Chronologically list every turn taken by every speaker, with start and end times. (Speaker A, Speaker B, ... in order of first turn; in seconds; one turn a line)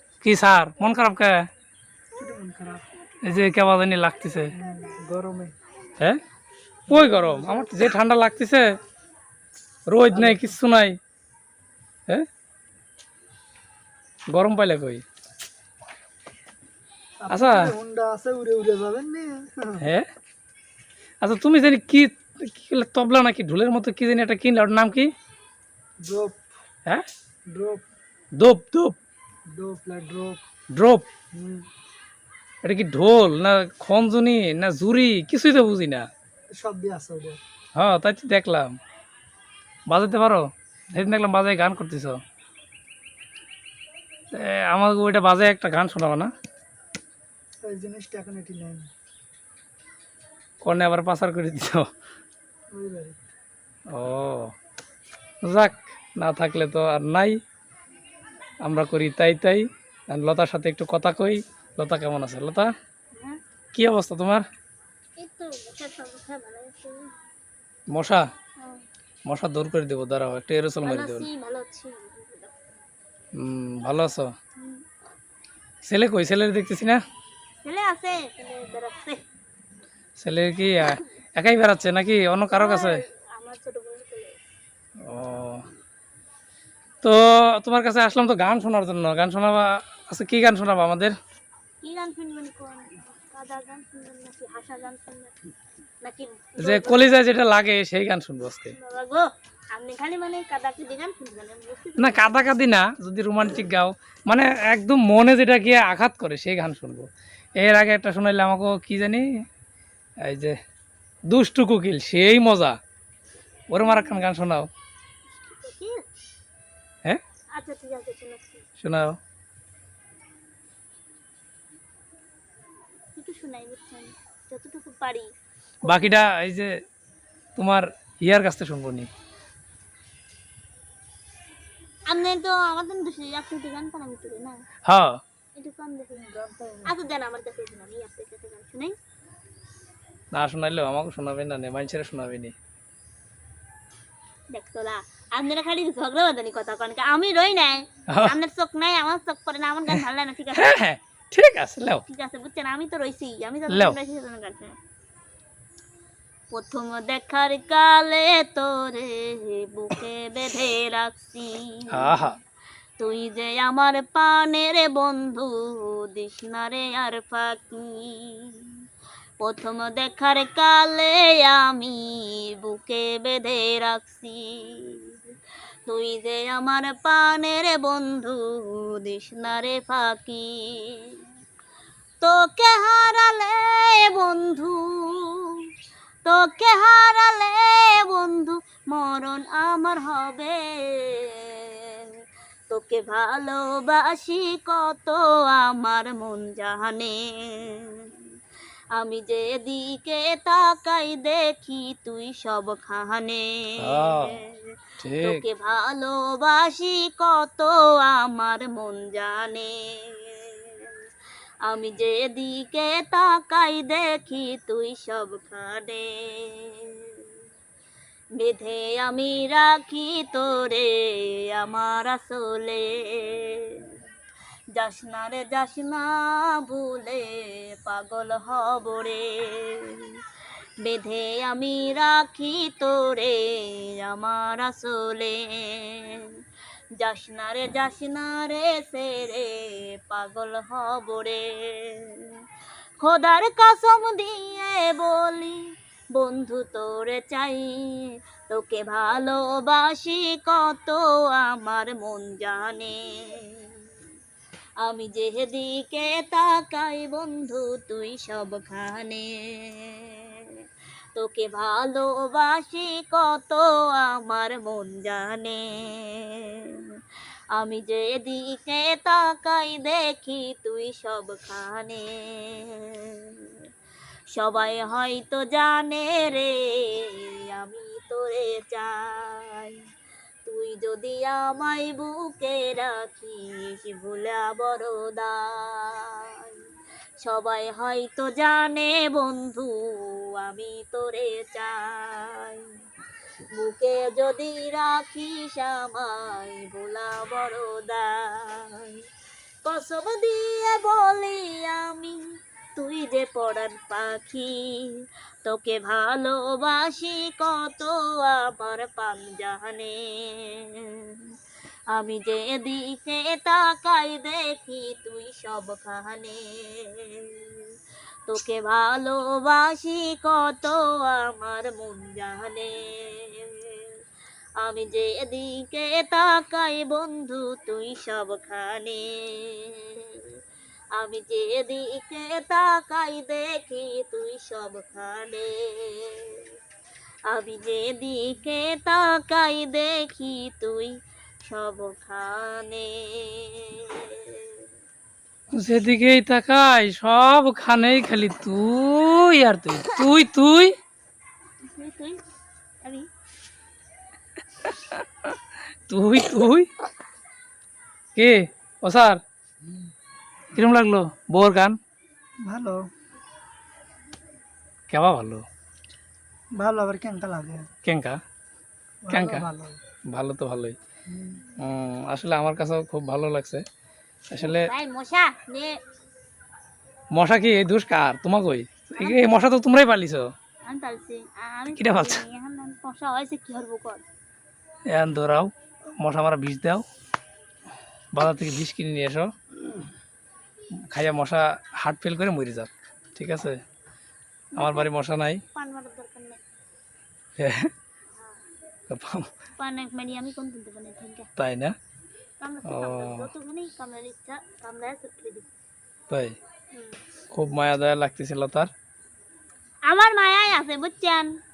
Speaker A: 0.2-1.4
Speaker B: 2.2-2.9
Speaker A: 3.2-4.5
Speaker B: 4.5-5.5
Speaker A: 6.9-8.7
Speaker B: 6.9-7.7
Speaker A: 9.9-11.0
Speaker B: 10.1-10.4
Speaker A: 14.3-15.0
Speaker B: 17.2-19.9
Speaker A: 17.3-17.7
Speaker A: 19.8-20.1
Speaker A: 21.2-25.1
Speaker B: 26.0-26.5
Speaker B: 27.5-27.8
Speaker A: 28.4-29.0
Speaker B: 29.5-30.4
Speaker A: 30.7-31.1
Speaker B: 31.3-31.7
Speaker A: 32.6-36.1
Speaker B: 36.5-37.4
Speaker A: 37.8-38.7
Speaker A: 39.9-42.2
Speaker A: 44.3-46.3
Speaker B: 47.6-48.9
Speaker A: 50.6-51.9
Speaker B: 52.7-53.2
Speaker A: 53.9-54.5
Speaker A: 55.4-57.4
Speaker A: 58.6-62.7
Speaker A: 63.7-64.4
Speaker C: 65.2-67.1
Speaker A: 67.9-68.2
Speaker A: 69.3-71.3
Speaker C: 70.8-72.6
Speaker A: 73.3-74.3
Speaker A: 75.8-77.0
Speaker C: 77.6-79.2
Speaker A: 80.2-83.0
Speaker C: 82.5-84.3
Speaker A: 85.1-85.7
Speaker A: 87.0-91.2
Speaker C: 91.8-95.4
Speaker C: 96.0-97.3
Speaker A: 96.6-98.8
Speaker C: 98.7-102.5
Speaker A: 102.0-109.3
Speaker A: 110.3-110.6
Speaker A: 111.3-112.8
Speaker A: 113.7-114.7
Speaker C: 113.8-114.3
Speaker C: 115.3-116.0
Speaker C: 117.5-118.6
Speaker A: 118.8-119.2
Speaker C: 123.2-125.3
Speaker C: 125.8-126.2
Speaker A: 125.8-126.8
Speaker A: 127.6-129.1
Speaker C: 132.1-134.6
Speaker A: 134.9-135.2
Speaker C: 135.6-136.3
Speaker B: 136.1-137.0
Speaker C: 136.8-138.9
Speaker A: 140.3-142.5
Speaker C: 144.5-150.7
Speaker A: 148.1-148.4
Speaker A: 150.5-152.0
Speaker C: 152.1-154.8
Speaker A: 153.7-154.0
Speaker C: 156.5-162.1
Speaker A: 161.9-162.4
Speaker C: 163.0-168.7
Speaker C: 169.4-175.2
Speaker C: 175.9-181.2
Speaker C: 182.2-185.6
Speaker C: 186.2-192.1
Speaker C: 192.7-198.1
Speaker C: 199.0-204.6
Speaker A: 203.8-204.4
Speaker A: 205.0-205.4
Speaker C: 205.2-210.9
Speaker C: 211.7-217.2
Speaker C: 218.4-223.8
Speaker C: 224.8-230.1
Speaker C: 230.8-236.3
Speaker C: 237.0-242.3
Speaker C: 243.0-245.6
Speaker C: 246.1-253.8
Speaker C: 254.8-260.5
Speaker C: 261.1-266.7
Speaker C: 267.6-273.5
Speaker C: 274.3-279.8
Speaker C: 280.4-286.6
Speaker C: 287.2-292.6
Speaker C: 293.6-299.0
Speaker C: 299.6-302.2
Speaker C: 302.8-304.9
Speaker C: 305.4-311.2
Speaker C: 311.9-317.7
Speaker C: 318.3-323.9
Speaker C: 324.6-330.2
Speaker C: 331.0-336.5
Speaker C: 337.3-340.9
Speaker C: 341.5-344.5
Speaker A: 345.5-350.7
Speaker C: 351.7-352.2
Speaker A: 354.6-355.4
Speaker A: 355.9-356.7
Speaker A: 358.1-359.2
Speaker A: 360.5-361.8
Speaker B: 362.4-362.9
Speaker A: 364.9-365.4
Speaker B: 366.6-367.7
Speaker A: 367.8-368.2
Speaker B: 369.0-369.8
Speaker A: 369.1-369.5
Speaker A: 370.1-370.8
Speaker B: 371.1-371.4
Speaker A: 371.6-373.6
Speaker A: 374.3-374.7
Speaker C: 374.4-375.8
Speaker A: 377.1-380.3
Speaker C: 379.0-379.4
Speaker C: 380.7-384.0
Speaker A: 381.8-382.2
Speaker A: 384.9-386.9
Speaker A: 388.1-389.3
Speaker A: 390.9-393.6
Speaker A: 394.6-395.4
Speaker C: 394.6-394.9
Speaker C: 395.5-396.4
Speaker A: 397.4-397.7
Speaker C: 398.1-398.4
Speaker A: 398.9-399.3
Speaker C: 399.6-401.3
Speaker A: 401.4-401.8
Speaker C: 402.4-405.5
Speaker A: 402.7-403.3
Speaker A: 406.1-406.4
Speaker C: 406.7-407.0
Speaker A: 407.3-408.7
Speaker C: 409.9-411.3